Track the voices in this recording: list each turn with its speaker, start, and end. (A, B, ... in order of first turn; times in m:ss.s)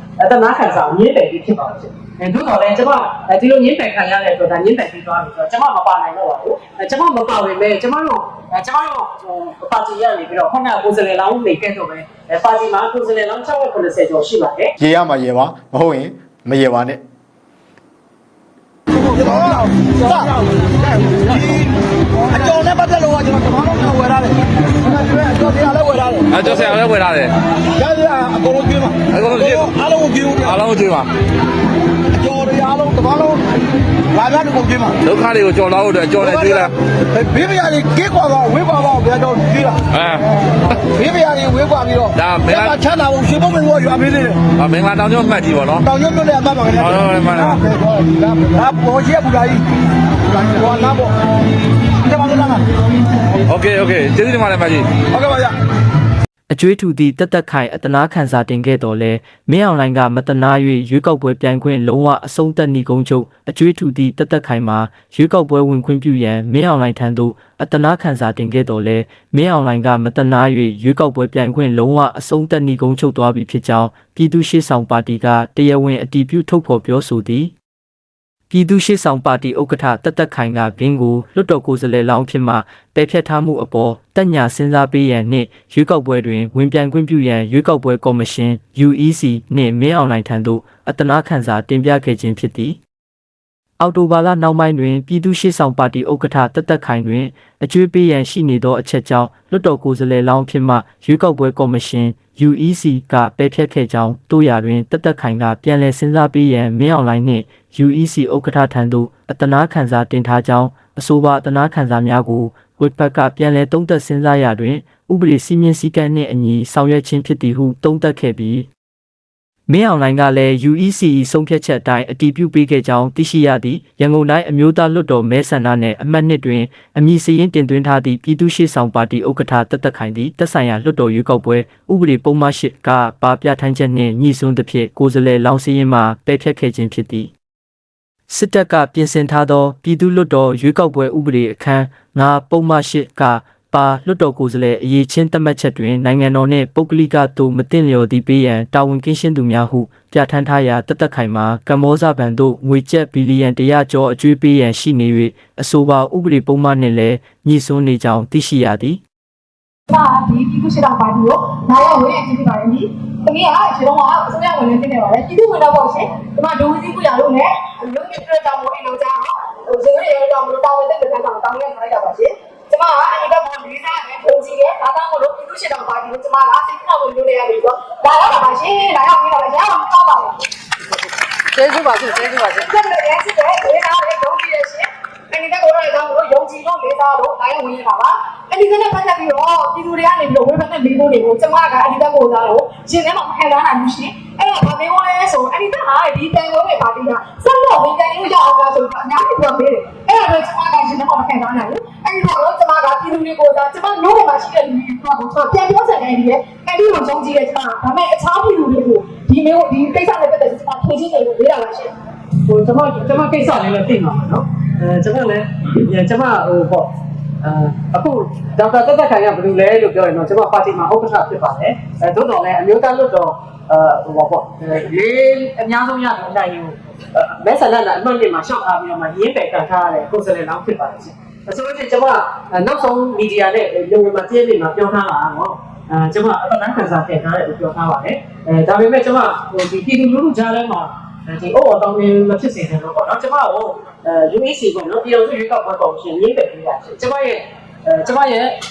0:00.2-0:14.7 A
0:14.8-0:17.0 B
0:19.0-0:26.8 C
0:26.3-0:27.3 D
0:27.7-0:30.6 C
0:29.1-0:29.7 D
0:30.5-0:31.1 D
0:32.1-0:33.5 C
0:34.1-0:35.0 C
0:35.0-0:36.7 D
0:36.2-0:40.2 C
0:39.9-0:40.2 D
0:40.8-0:44.5 C
0:42.2-0:42.8 D
0:44.6-0:45.8 D
0:45.8-0:49.6 C
0:46.8-0:47.6 D
0:50.3-0:51.1 C
0:52.0-0:52.6 C
0:53.5-0:54.9 D
0:55.0-0:55.6 C
0:56.5-1:17.5 E
1:18.5-1:32.8 E
1:33.8-1:58.7 E
1:59.7-2:17.3 E
2:18.3-2:39.0 E
2:39.9-3:00.4 F
3:01.5-3:02.6 A
3:02.1-3:31.9 F
3:32.5-3:36.9 A
3:37.4-4:08.5 A